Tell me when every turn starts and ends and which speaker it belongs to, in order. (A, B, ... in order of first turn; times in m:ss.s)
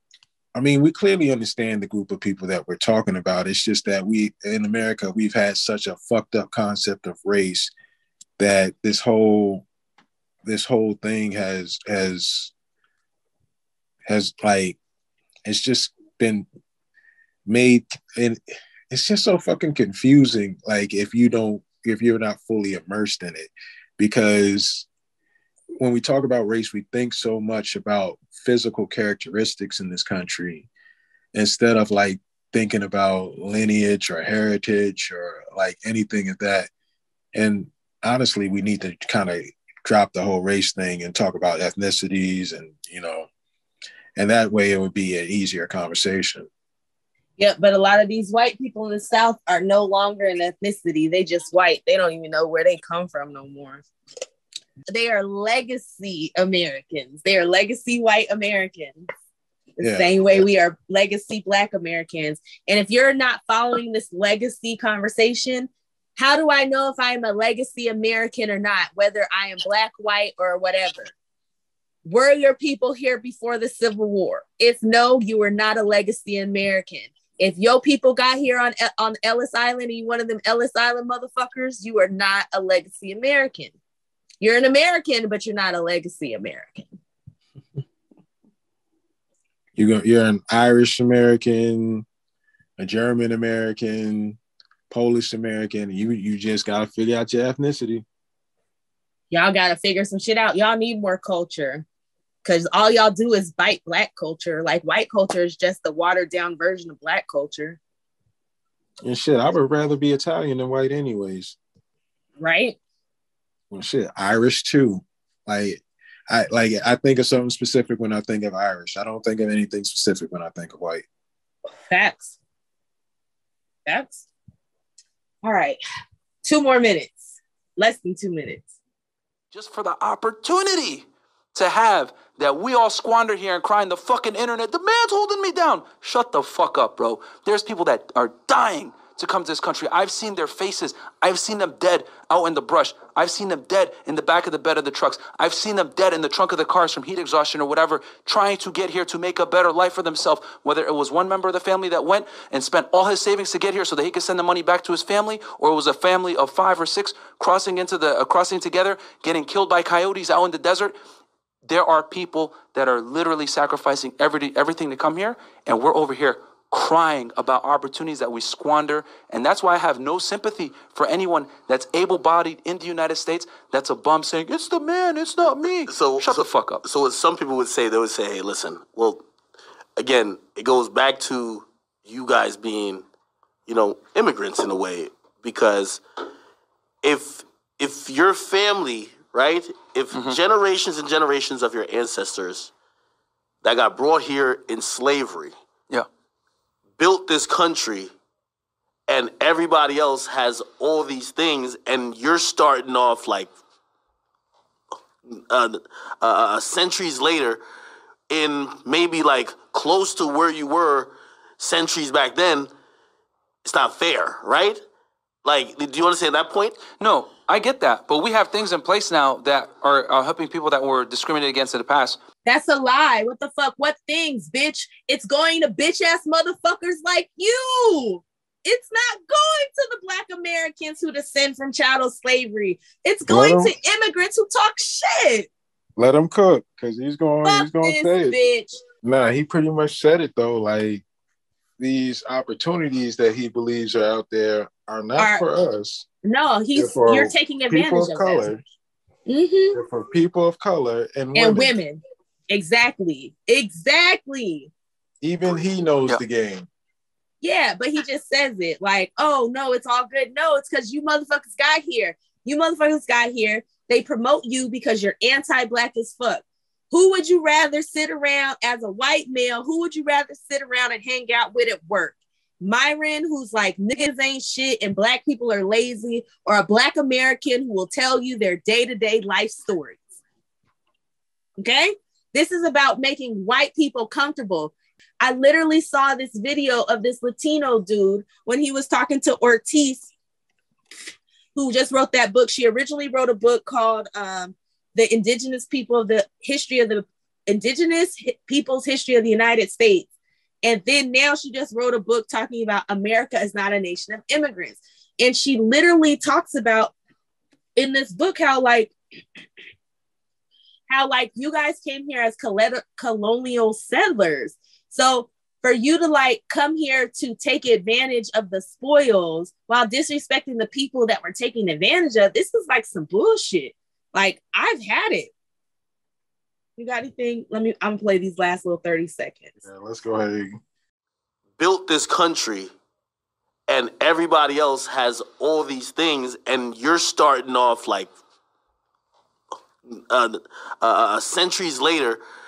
0:00.5-0:07.7 A
0:08.4-0:09.6 A
0:10.4-0:12.5 A
0:14.0-0:14.8 A
0:15.4-0:16.5 A
0:17.4-0:24.9 A
0:25.8-0:30.7 A
0:31.3-0:36.7 A
0:37.3-0:43.3 A
0:44.2-0:46.5 A
0:47.4-0:53.8 B
0:54.9-0:59.1 B
0:59.8-1:11.1 B
0:59.8-1:00.4 A
1:12.0-1:23.7 B
1:24.4-1:26.9 B
1:29.7-1:32.0 A
1:32.8-1:34.4 A
1:34.9-1:38.0 A
1:39.3-1:41.8 B
1:42.4-1:47.8 B
1:49.0-1:51.6 A
1:52.4-1:52.8 B
1:53.7-2:01.0 A
2:01.9-2:02.4 B
2:03.8-2:04.2 B
2:05.4-2:05.8 B
2:06.4-2:08.7 B
2:09.5-2:40.9 C
2:41.6-2:56.8 C
2:55.9-2:59.2 D
3:00.0-3:03.0 D
3:03.7-3:06.0 D
3:07.0-3:12.7 D
3:10.1-3:10.4 C
3:13.6-3:15.5 D
3:17.0-3:18.1 D
3:19.1-3:23.5 D
3:25.3-3:27.6 D
3:28.3-3:32.7 D
3:33.6-3:34.8 D
3:35.4-3:36.8 D
3:37.0-3:42.2 C
3:42.4-3:55.5 B
3:53.3-3:53.7 A
3:56.0-3:58.4 A
3:57.4-3:58.8 B
3:59.0-4:01.0 A
4:01.8-4:06.0 A
4:05.2-4:05.4 B
4:06.2-4:08.5 B
4:06.7-4:08.7 A
4:09.3-4:09.8 B
4:09.7-4:11.7 A
4:11.3-4:14.7 B
4:15.2-4:16.7 A
4:17.4-4:40.0 B
4:41.6-4:50.1 B
4:51.5-5:00.1 B
5:00.6-5:06.9 B
5:07.8-5:08.9 B
5:10.9-5:25.3 B
5:26.8-5:29.5 B
5:29.6-5:30.6 A
5:31.6-5:32.7 D
5:33.7-5:38.1 D
5:39.9-5:42.2 D